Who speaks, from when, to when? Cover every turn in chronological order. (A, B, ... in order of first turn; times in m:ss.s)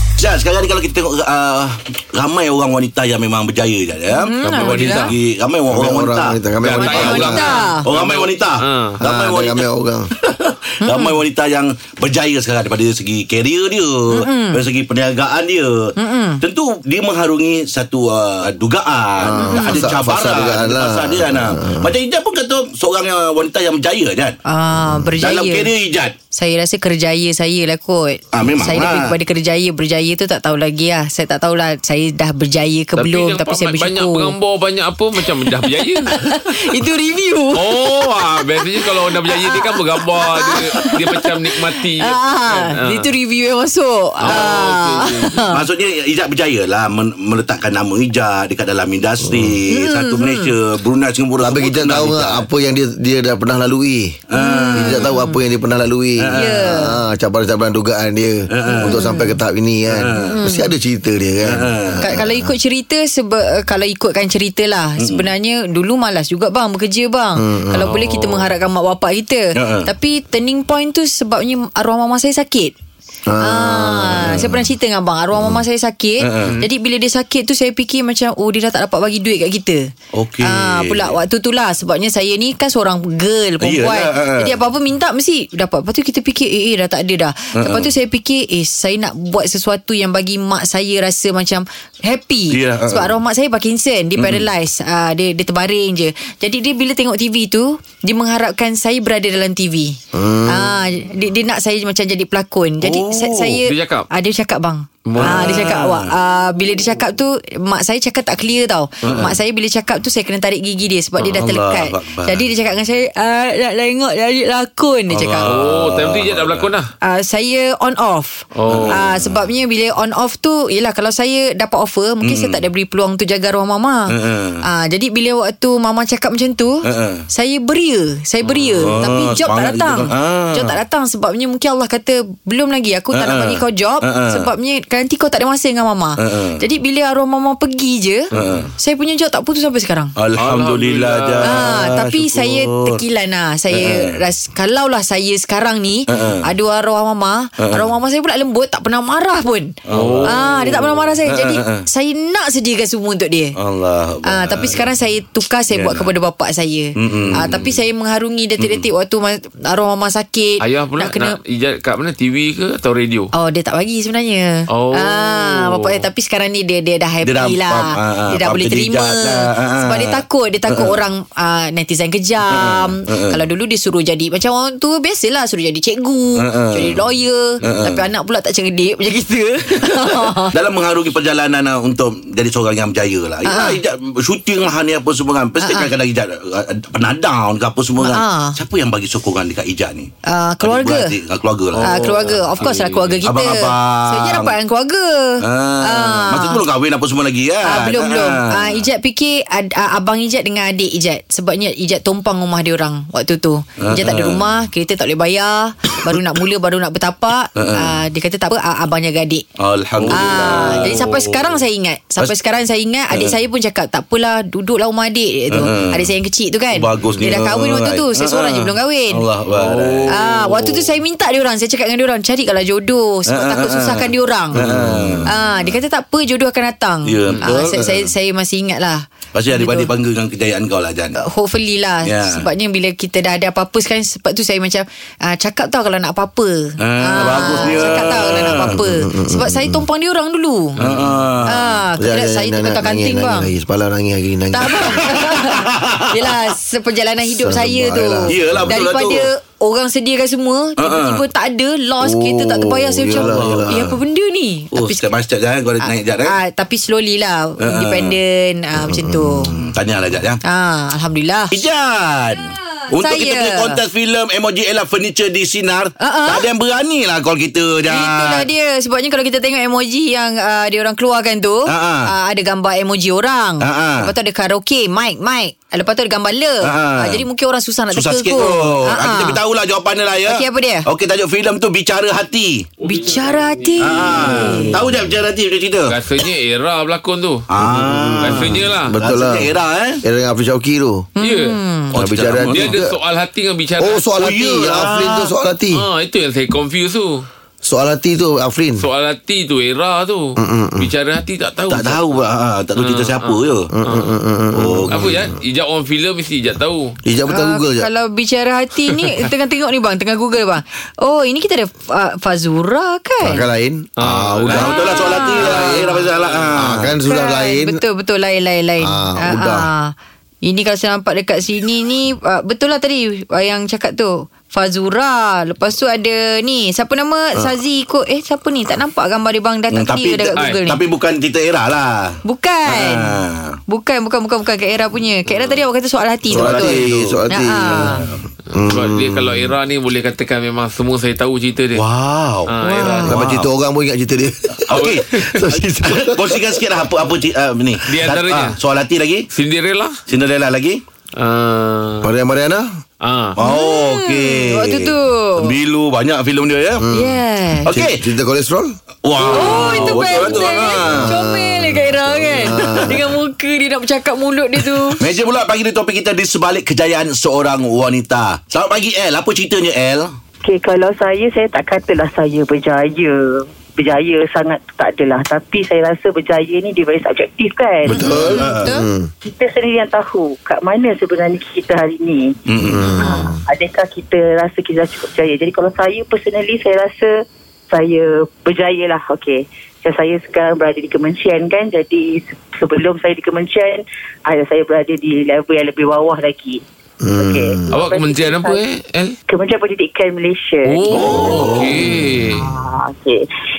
0:00.2-0:06.4 A
0:04.1-0:05.1 B
0:04.4-0:05.2 C
0:05.7-0:07.5 D
0:06.6-0:09.0 C
0:06.8-0:07.8 B
0:07.0-0:09.6 A
0:09.0-0:10.1 D
0:10.2-0:24.4 A
0:10.8-0:11.2 B
0:14.1-0:14.6 B
0:16.0-0:16.4 B
0:19.2-0:21.9 D
0:19.4-0:19.8 B
0:24.4-0:25.7 B
0:24.8-0:25.1 D
0:25.2-0:26.2 A
0:26.3-0:34.3 B
0:28.3-0:29.2 A
0:33.0-0:36.7 C
0:35.4-0:38.0 B
0:37.5-0:43.1 C
0:38.8-0:45.6 B
0:44.2-0:45.4 C
0:44.3-0:44.8 A
0:45.4-0:52.4 A
0:49.3-0:49.6 D
0:49.7-0:50.5 B
0:51.4-1:02.5 D
0:54.3-0:55.1 A
0:54.4-0:55.4 B
0:56.2-0:56.5 A
0:56.3-0:57.0 B
0:58.5-0:59.0 A
0:58.6-0:59.3 B
0:59.9-1:00.4 A
1:00.1-1:00.7 B
1:01.4-1:02.1 A
1:02.0-1:12.7 B
1:05.0-1:05.3 A
1:07.4-1:07.9 D
1:07.8-1:08.5 C
1:09.6-1:09.9 A
1:13.2-1:14.6 D
1:13.4-1:19.9 B
1:16.2-1:16.6 A
1:20.1-1:21.2 A
1:20.4-1:55.5 B
1:23.6-1:24.6 A
1:27.5-1:27.9 A
1:32.5-1:33.1 A
1:34.2-1:34.5 A
1:40.1-1:40.7 D
1:42.8-1:43.6 A
1:43.6-1:44.1 C
1:45.1-1:45.7 C
1:45.2-1:46.1 A
1:49.0-1:49.3 C
1:49.0-1:49.4 A
1:51.3-1:52.5 A
1:55.2-1:56.7 A
1:55.2-1:56.9 C
1:57.0-2:20.1 B
1:58.6-1:59.0 C
1:58.7-1:59.4 A
2:02.2-2:02.6 A
2:04.1-2:04.6 A
2:06.8-2:07.3 A
2:08.4-2:09.1 C
2:08.8-2:10.8 A
2:13.1-2:14.5 A
2:16.2-2:16.6 A
2:18.3-2:18.7 A
2:18.3-2:18.6 C
2:20.2-2:23.0 A
2:20.4-2:21.8 C
2:21.4-2:33.6 B
2:23.7-2:24.2 A
2:26.1-2:26.5 A
2:27.6-2:27.9 A
2:29.8-2:31.9 A
2:29.9-2:30.7 C
2:33.6-2:34.8 A
2:34.2-2:41.4 B
2:35.7-2:36.1 A
2:37.0-2:37.8 A
2:38.6-2:38.9 A
2:40.6-2:43.3 C
2:43.3-3:00.6 B
2:44.7-2:46.0 C
2:47.2-2:51.0 A
2:52.5-2:53.4 A
2:56.4-2:57.1 A
2:57.6-2:58.0 A
2:59.8-3:10.1 A
3:03.4-3:03.8 B
3:05.6-3:05.9 B
3:08.0-3:08.6 B
3:10.3-3:11.1 B
3:10.6-3:12.4 A
3:11.7-3:13.2 C
3:11.8-3:16.6 B
3:13.2-3:14.5 A
3:15.4-3:18.8 A
3:17.6-3:29.4 B
3:23.8-3:24.4 A
3:27.6-3:28.0 A
3:29.6-3:31.4 A
3:30.0-3:31.0 C
3:30.1-3:39.2 B
3:35.5-3:36.1 A
3:36.7-3:40.2 A
3:39.5-3:40.9 C
3:40.1-3:44.6 B
3:43.2-3:45.8 A
3:44.6-3:44.9 C
3:45.2-3:49.9 B
3:47.0-3:48.1 A
3:49.3-3:51.2 A
3:51.2-4:00.8 B
3:52.0-3:52.4 A
3:56.8-3:58.8 A
3:58.0-3:59.8 D
4:00.8-4:01.7 A
4:00.8-4:01.1 D
4:01.4-4:03.5 B
4:02.0-4:05.1 D
4:04.5-4:15.0 B
4:05.0-4:06.5 A
4:07.2-4:08.7 D
4:08.3-4:09.3 A
4:10.8-4:11.2 A
4:12.0-4:14.0 D
4:13.2-4:13.9 A
4:14.7-4:16.4 A
4:15.8-4:19.5 B
4:17.6-4:18.2 A
4:18.8-4:19.7 D
4:19.5-4:20.4 A
4:20.4-4:21.6 B
4:21.5-4:28.5 A
4:22.4-4:23.8 B
4:26.0-4:26.5 B
4:27.9-4:39.4 B
4:31.7-4:32.1 A
4:33.6-4:34.1 A
4:36.6-4:37.2 A
4:37.9-4:42.7 A
4:40.2-4:40.9 B
4:42.8-4:44.6 C
4:42.8-4:44.8 B
4:43.8-4:46.0 A
4:45.9-4:47.4 C
4:47.5-4:50.0 A
4:47.6-4:49.5 D
4:48.2-4:48.9 C
4:50.0-4:51.1 D
4:51.2-4:51.9 B
4:51.2-4:51.6 C
4:51.9-4:52.8 A
4:52.0-4:52.9 D
4:52.4-4:54.0 C
4:53.8-4:55.8 D
4:54.2-4:55.3 A
4:55.7-4:57.2 C
4:57.6-4:58.9 D
4:58.8-5:02.0 C
5:00.4-5:00.9 D
5:01.7-5:03.7 A
5:02.8-5:04.2 C
5:03.7-5:05.2 D
5:04.6-5:05.2 A
5:04.9-5:07.0 C
5:07.0-5:07.9 D
5:07.3-5:13.4 B
5:13.2-5:13.9 D
5:14.0-5:16.5 C
5:14.0-5:16.9 A
5:14.5-5:16.0 B
5:16.6-5:17.8 D
5:17.1-5:30.8 B
5:18.8-5:19.7 D
5:29.7-5:33.6 A
5:32.2-5:38.0 B
5:35.3-5:35.6 C
5:36.3-5:37.2 A
5:36.3-5:39.5 D
5:37.7-5:38.2 A
5:38.6-5:41.8 C
5:41.8-5:42.5 A
5:42.5-5:43.1 C
5:42.6-5:43.2 B
5:43.1-5:46.6 D
5:43.1-5:43.5 A
5:44.6-5:49.3 A
5:44.7-5:45.5 C
5:47.8-5:48.6 C
5:49.3-5:50.0 C
5:50.1-5:50.8 A
5:51.2-5:52.1 C
5:52.0-5:52.7 D
5:53.0-5:53.4 C
5:53.4-5:56.8 A
5:53.4-5:55.5 B
5:56.8-5:57.2 D
5:56.9-5:57.8 B
5:57.6-5:58.1 A
5:57.7-5:58.8 D
5:59.0-6:01.1 A
5:59.2-6:00.6 C
5:59.2-6:05.0 B
6:00.8-6:03.1 D
6:05.0-6:10.1 A
6:10.4-6:18.3 E
6:17.9-6:19.1 D
6:18.0-6:18.9 B
6:18.0-6:18.7 A
6:19.2-6:22.4 E
6:22.5-6:22.9 A
6:22.6-6:23.4 D
6:22.9-6:36.6 E
6:23.0-6:23.3 B
6:37.0-6:37.7 D
6:37.2-6:38.6 E
6:37.7-6:39.2 C
6:39.3-6:43.2 E
6:40.7-6:42.5 C
6:41.1-6:41.5 A
6:41.1-6:42.0 D